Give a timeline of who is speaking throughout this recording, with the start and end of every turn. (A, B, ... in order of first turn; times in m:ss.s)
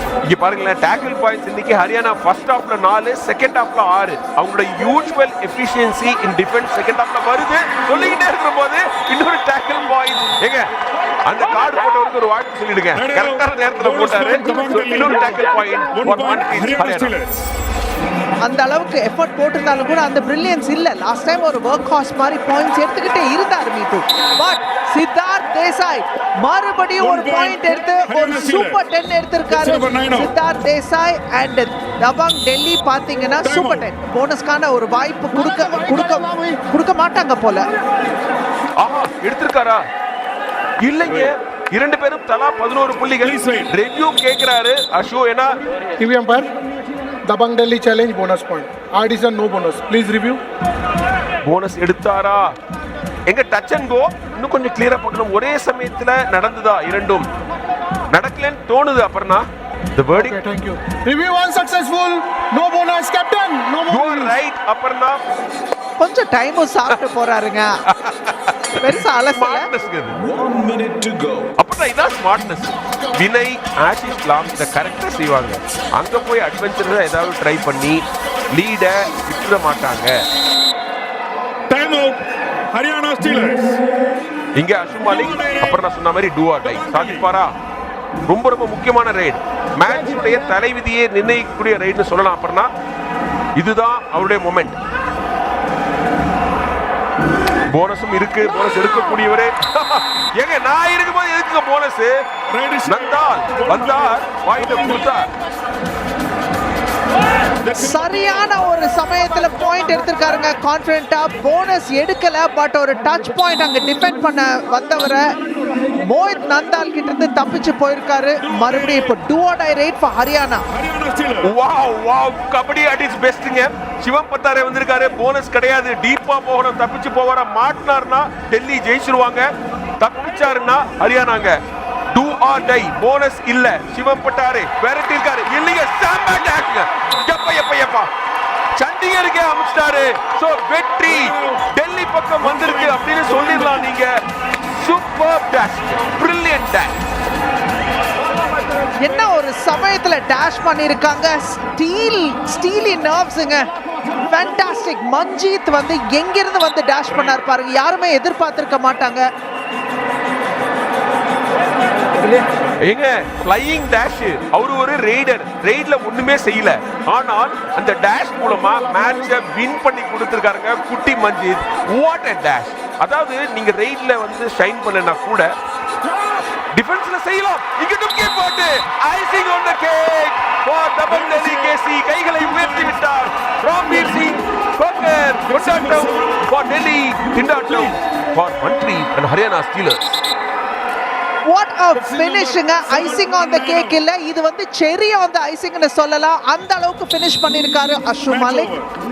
0:00.3-0:10.7 A
0:11.3-0:17.2 A
0:12.9-0:15.4 B
0:15.9-0:17.3 B
0:18.4-0:37.6 C
0:27.0-0:28.8 B
0:29.5-0:30.3 B
0:33.4-0:33.9 B
0:38.8-0:39.8 A
0:40.8-0:45.5 A
0:43.2-0:43.7 B
0:46.0-0:46.5 D
0:47.2-0:50.4 D
0:51.4-0:52.5 A
0:53.3-0:57.2 A
0:58.1-0:59.4 A
1:00.0-1:00.4 A
1:00.1-1:04.3 D
1:03.9-1:05.2 A
1:06.0-1:07.6 C
1:07.9-1:10.2 A
1:08.8-1:09.6 C
1:11.6-1:18.0 A
1:18.5-1:20.1 A
1:21.7-1:23.8 B
1:24.6-1:27.5 A
1:25.0-1:25.8 B
1:26.6-1:27.3 B
1:28.2-1:32.7 A
1:33.6-1:34.8 A
1:37.7-1:42.2 A
1:42.5-1:45.0 B
1:42.8-1:45.3 A
1:47.6-1:48.4 B
1:47.7-1:55.2 C
1:56.0-2:00.6 C
1:58.4-1:59.1 B
2:00.7-2:01.5 B
2:01.4-2:09.5 A
2:10.0-2:11.6 A
2:12.1-2:18.1 A
2:18.7-2:24.1 A
2:21.0-2:21.7 B
2:22.4-2:23.9 B
2:24.7-2:27.0 A
2:29.0-2:33.7 C
2:34.2-2:39.2 C
2:42.8-2:55.5 A
2:56.7-3:10.2 A
3:01.1-3:01.8 B
3:02.4-3:02.9 B
3:05.5-3:06.3 B
3:11.5-3:18.7 C
3:12.0-3:14.0 B
3:18.3-3:18.9 B